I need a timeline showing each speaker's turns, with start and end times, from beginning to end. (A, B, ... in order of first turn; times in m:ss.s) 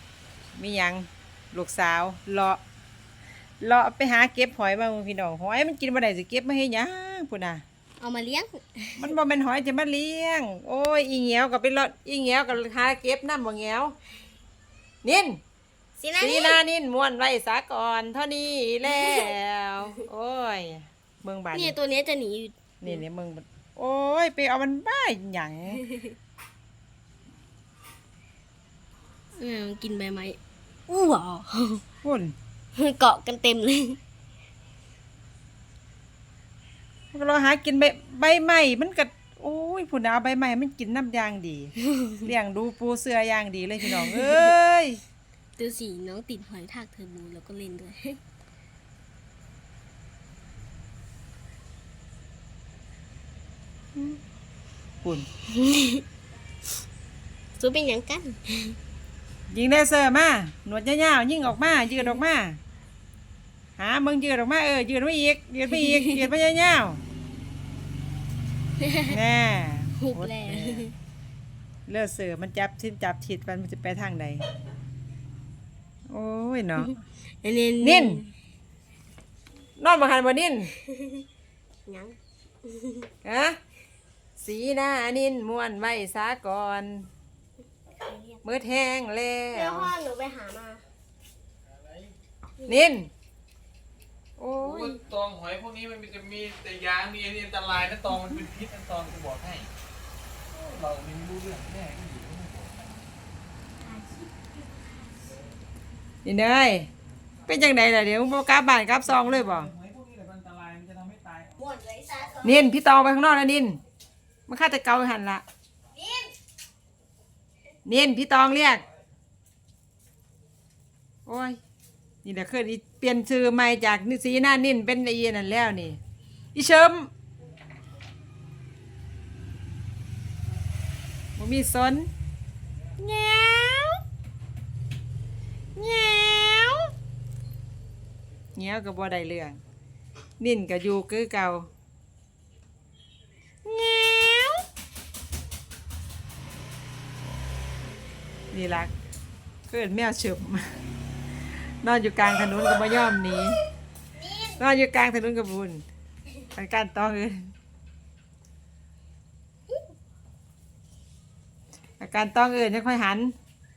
0:00.6-0:02.6 A
0:03.6-0:07.6 A
0:08.0-0:09.1 B
0:09.0-0:13.9 A
0:15.0-0:15.4 A
0:16.0-0:16.6 B
0:16.2-0:21.7 A
0:18.9-0:19.3 B
0:21.5-0:23.0 B
0:22.8-0:25.8 A
0:25.8-0:26.1 B
0:29.3-0:31.8 B
0:32.0-0:32.4 A
0:32.7-0:34.0 B
0:37.1-0:45.0 A
0:41.8-0:42.2 B
0:43.8-0:44.5 B
0:45.6-0:48.2 B
0:53.9-0:54.2 A
0:55.0-0:55.3 A
0:55.4-0:56.0 B
0:57.6-0:58.8 B
0:59.5-1:02.6 A
1:03.8-1:07.0 A
1:05.7-1:06.2 B
1:08.8-1:09.2 B
1:09.1-1:10.8 A
1:10.0-1:10.9 B
1:11.9-1:14.4 A
1:16.1-1:16.9 A
1:16.8-1:18.3 B
1:17.8-1:18.2 A
1:19.8-1:20.7 A
1:20.8-1:21.2 B
1:21.8-1:23.1 B
1:23.2-1:23.6 A
1:24.4-1:27.1 A
1:28.0-1:28.4 B
1:28.4-1:29.9 A
1:29.5-1:30.8 B
1:32.7-1:33.1 A
1:34.4-1:35.0 A
1:34.6-1:39.7 C
1:40.5-1:42.8 C
1:46.2-1:46.9 A
1:47.5-1:49.7 A
1:49.2-1:51.6 C
1:51.6-1:52.4 B
1:52.4-1:53.8 A
1:54.5-1:55.4 A
1:56.0-1:56.3 B
1:57.8-1:58.8 A
2:01.2-2:01.6 A
2:02.2-2:06.0 A
2:06.5-2:07.1 A
2:11.4-2:12.1 A
2:13.0-2:14.0 A
2:15.8-2:16.9 A
2:18.5-2:19.6 A
2:20.4-2:21.7 A
2:23.6-2:24.6 A
2:28.5-2:28.9 A
2:29.7-2:30.8 A
2:31.7-2:33.6 A
2:34.6-2:35.8 A
2:36.5-2:37.5 A
2:42.0-2:43.3 A